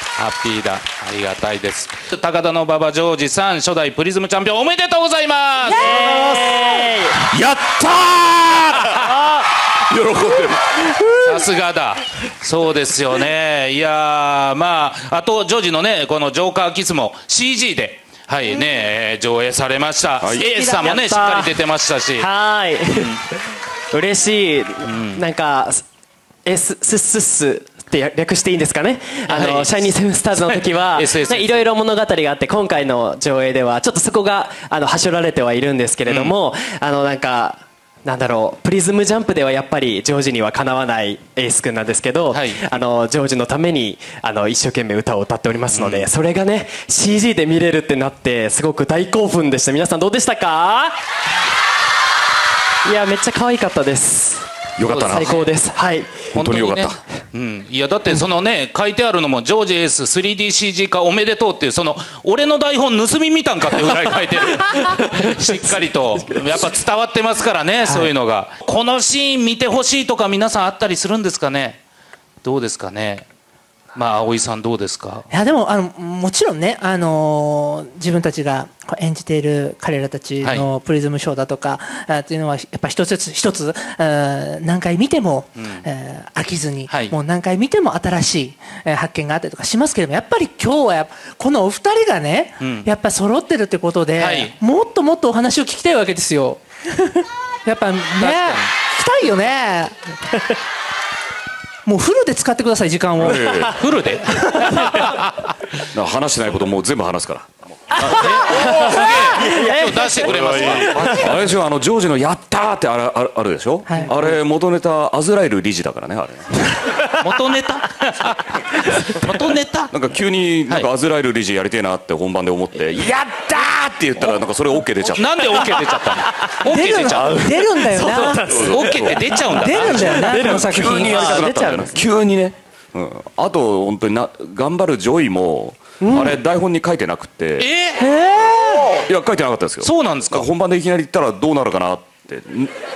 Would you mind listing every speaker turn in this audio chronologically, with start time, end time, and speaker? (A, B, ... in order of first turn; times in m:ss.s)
0:00.2-0:06.2 A
0:05.7-0:07.3 B
0:07.3-0:11.2 C
0:09.1-0:09.4 B
0:11.2-0:22.3 A
0:20.2-0:20.5 C
0:20.4-0:20.8 D
0:20.6-0:21.5 B
0:22.2-0:23.4 B
0:22.9-0:23.2 A
0:23.9-0:25.8 B
0:24.9-0:25.2 A
0:26.4-0:51.0 B
0:29.3-0:31.7 A
0:36.1-0:36.3 A
0:42.3-0:42.6 A
0:45.7-0:46.1 A
0:52.8-0:56.3 B
0:54.8-0:55.4 C
0:54.9-0:55.5 A
0:56.3-1:11.8 A
0:56.4-0:57.0 C
1:04.8-1:05.4 B
1:06.2-1:06.5 B
1:07.8-1:08.1 B
1:12.4-1:13.3 A
1:14.0-1:15.3 A
1:15.3-1:40.2 D
1:20.4-1:20.7 A
1:25.6-1:25.9 A
1:26.9-1:27.2 A
1:32.6-1:32.9 A
1:34.2-1:34.5 A
1:38.2-1:38.6 A
1:41.9-1:43.7 D
1:43.2-1:43.8 C
1:43.7-1:45.6 A
1:44.3-1:44.8 B
1:45.9-1:48.3 C
1:47.9-1:51.4 B
1:48.0-1:51.0 A
1:50.2-1:56.9 C
1:57.2-1:59.9 A
1:59.9-2:05.7 C
2:05.1-2:07.6 A
2:05.5-2:06.2 B
2:06.6-2:08.5 D
2:07.8-2:09.6 B
2:08.4-2:17.7 C
2:08.6-2:10.4 A
2:09.5-2:11.2 D
2:10.1-2:12.0 B
2:16.0-2:16.4 B
2:17.6-2:18.1 A
2:18.0-2:19.0 B
2:18.9-2:22.7 C
2:19.8-2:20.5 A